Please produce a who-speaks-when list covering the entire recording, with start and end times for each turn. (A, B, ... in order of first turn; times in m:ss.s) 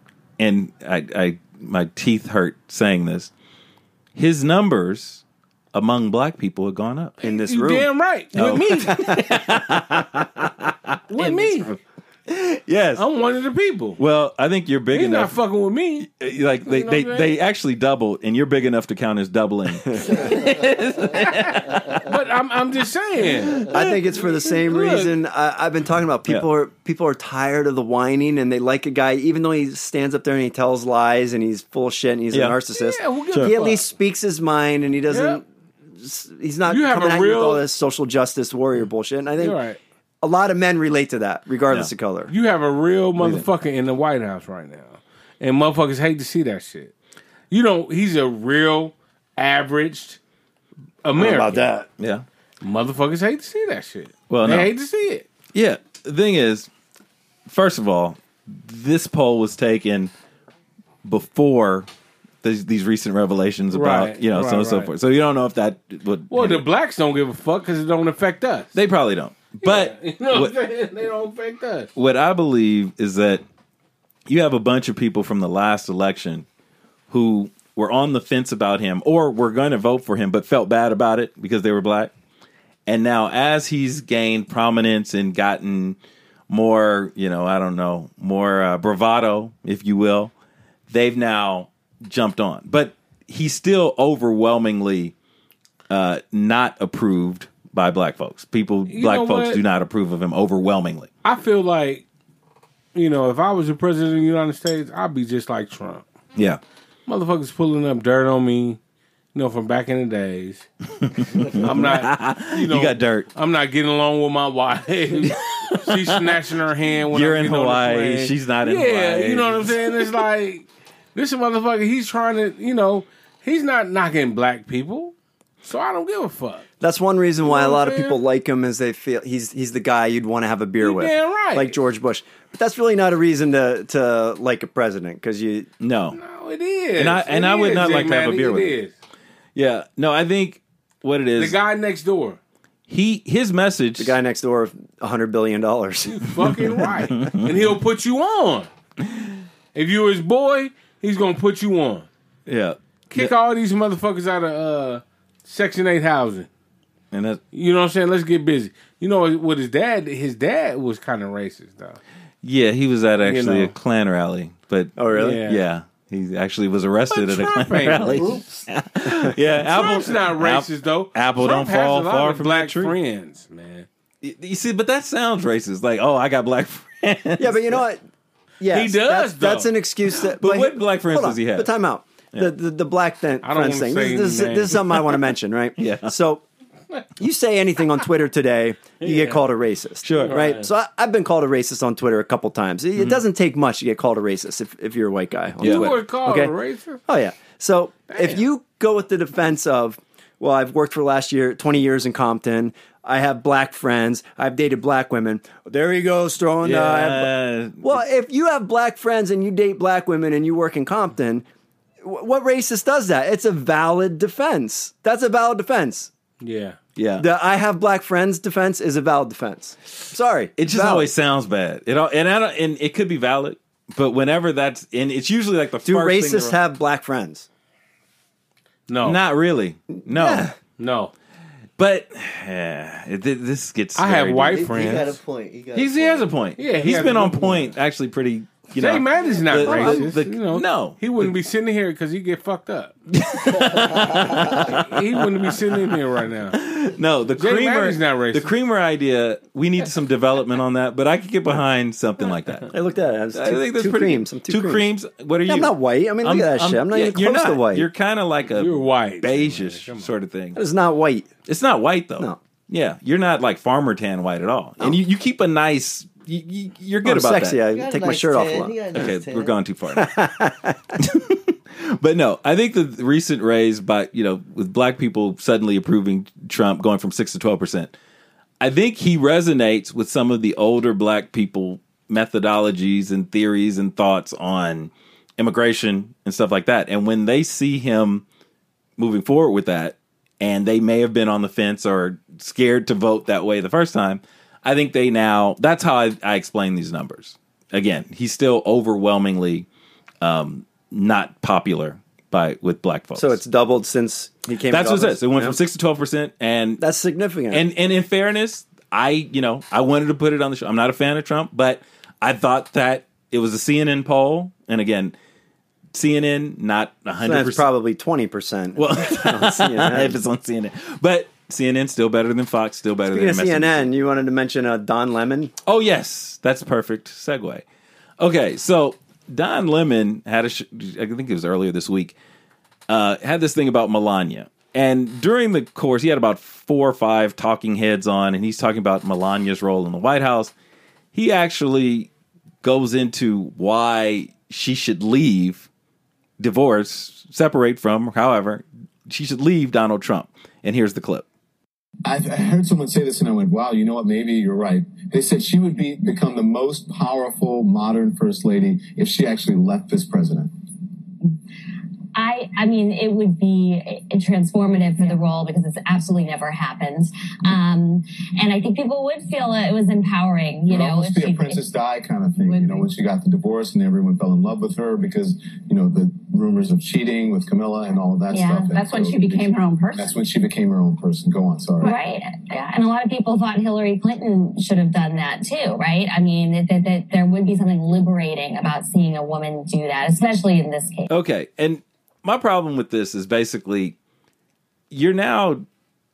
0:00.4-0:03.3 A
0:04.2-0:05.2 A
0:05.7-0:07.2 A
0:07.2-0:07.9 B
0:07.2-0:09.3 C
0:08.4-0:11.8 A
0:11.1-0:11.7 C
0:12.3-0:13.0 A
0:13.0-0:14.0 C
0:14.0-0:15.3 A
0:14.9-0:16.1 C
0:16.1-0:22.0 A
0:16.6-0:17.4 C
0:19.9-0:20.2 B
0:21.1-0:23.7 C
0:23.5-0:24.0 A
0:23.7-0:35.4 B
0:24.4-0:25.1 C
0:32.7-0:33.9 C
0:35.1-0:35.4 C
0:36.0-0:39.6 B
0:36.7-0:37.6 C
0:39.4-0:39.8 C
0:40.2-0:42.3 B
0:42.3-0:46.9 C
0:43.2-0:43.5 A
0:47.5-0:50.2 C
0:51.0-0:51.7 C
0:51.2-0:51.8 B
0:52.0-0:52.2 A
0:52.6-0:55.3 C
0:54.3-0:54.7 A
0:55.5-0:56.7 A
0:57.5-1:00.1 A
1:01.0-1:01.9 A
1:02.4-1:06.6 A
1:03.7-1:04.9 C
1:06.3-1:08.7 C
1:08.7-1:10.6 A
1:09.6-1:11.9 C
1:12.0-1:13.4 A
1:14.3-1:16.5 A
1:17.1-1:22.1 A
1:22.9-1:26.0 A
1:26.5-1:30.3 A
1:30.9-1:35.1 A
1:35.9-1:41.1 A
1:38.9-1:39.6 C
1:41.2-1:42.0 C
1:43.0-1:46.0 C
1:47.1-1:48.8 C
1:49.4-1:50.7 C
1:51.0-1:53.3 A
1:51.4-2:06.6 C
1:55.2-1:56.2 A
1:57.1-2:00.2 A
2:06.8-2:15.7 B
2:07.4-2:08.2 C
2:10.8-2:11.8 C
2:15.8-2:16.2 A
2:16.1-2:18.9 C
2:17.0-2:18.7 A
2:19.6-2:21.6 A
2:21.4-2:22.4 C
2:22.9-2:24.2 A
2:24.0-2:26.5 B
2:26.1-2:28.7 C
2:27.1-2:27.5 A
2:29.8-2:32.1 C
2:32.5-2:33.3 A
2:33.1-2:36.5 C
2:37.1-2:37.4 A
2:37.5-2:42.0 C
2:42.4-2:52.9 A
2:43.2-2:43.7 C
2:45.0-2:45.4 B
2:45.1-2:45.6 C
2:47.1-2:48.6 C
2:49.6-2:53.9 C
2:54.2-2:57.8 A
2:57.4-2:58.0 B
2:58.6-3:06.4 B
2:58.7-2:59.7 C
3:00.4-3:01.7 A
3:03.4-3:05.0 C
3:05.8-3:06.1 A
3:07.2-3:16.5 B
3:09.0-3:09.4 C
3:10.0-3:10.4 A
3:10.2-3:10.7 C
3:15.6-3:17.0 C
3:15.6-3:15.9 A
3:17.1-3:31.5 B
3:18.1-3:18.4 C
3:26.6-3:28.0 A
3:32.0-3:36.1 B
3:36.4-3:36.8 C
3:37.0-3:37.3 A
3:37.2-3:41.1 B
3:40.6-3:46.6 A
3:45.8-3:47.5 B
3:48.9-3:49.2 C
3:49.0-3:50.5 A
3:50.0-3:50.5 B
3:50.8-3:51.1 C
3:51.8-3:55.0 A
3:54.0-3:55.2 C
3:54.5-3:56.3 D
3:55.7-4:01.3 A
3:56.6-3:57.7 C
3:58.8-4:03.0 C
4:03.1-4:06.0 A
4:04.4-4:06.6 C
4:06.5-4:12.7 A
4:07.4-4:08.5 C
4:12.7-4:14.9 B
4:13.3-4:20.6 A
4:15.5-4:17.9 B
4:18.5-4:20.1 C
4:20.6-4:21.3 B
4:21.5-4:27.6 A
4:27.0-4:29.1 B
4:27.7-4:29.6 D
4:28.9-4:30.2 A
4:29.9-4:31.0 B
4:31.0-4:37.9 A
4:38.6-4:48.2 A
4:49.0-4:59.7 A
5:00.2-5:03.4 A
5:03.2-5:05.6 B
5:04.7-5:06.8 A
5:06.8-5:07.6 B
5:07.5-5:15.2 A
5:15.9-5:17.7 A
5:17.2-5:20.2 B
5:18.8-5:23.9 A
5:23.1-5:25.5 B
5:25.7-5:27.6 A
5:28.2-5:32.2 A
5:32.9-5:40.5 A
5:41.1-5:42.1 A
5:42.6-5:45.7 A
5:46.4-5:51.2 A
5:52.0-6:00.5 E
6:02.2-6:11.7 F
6:10.7-6:22.0 E
6:12.4-6:12.9 F
6:18.3-6:18.8 F
6:21.8-6:31.1 F
6:31.1-6:34.0 A
6:34.9-6:35.7 A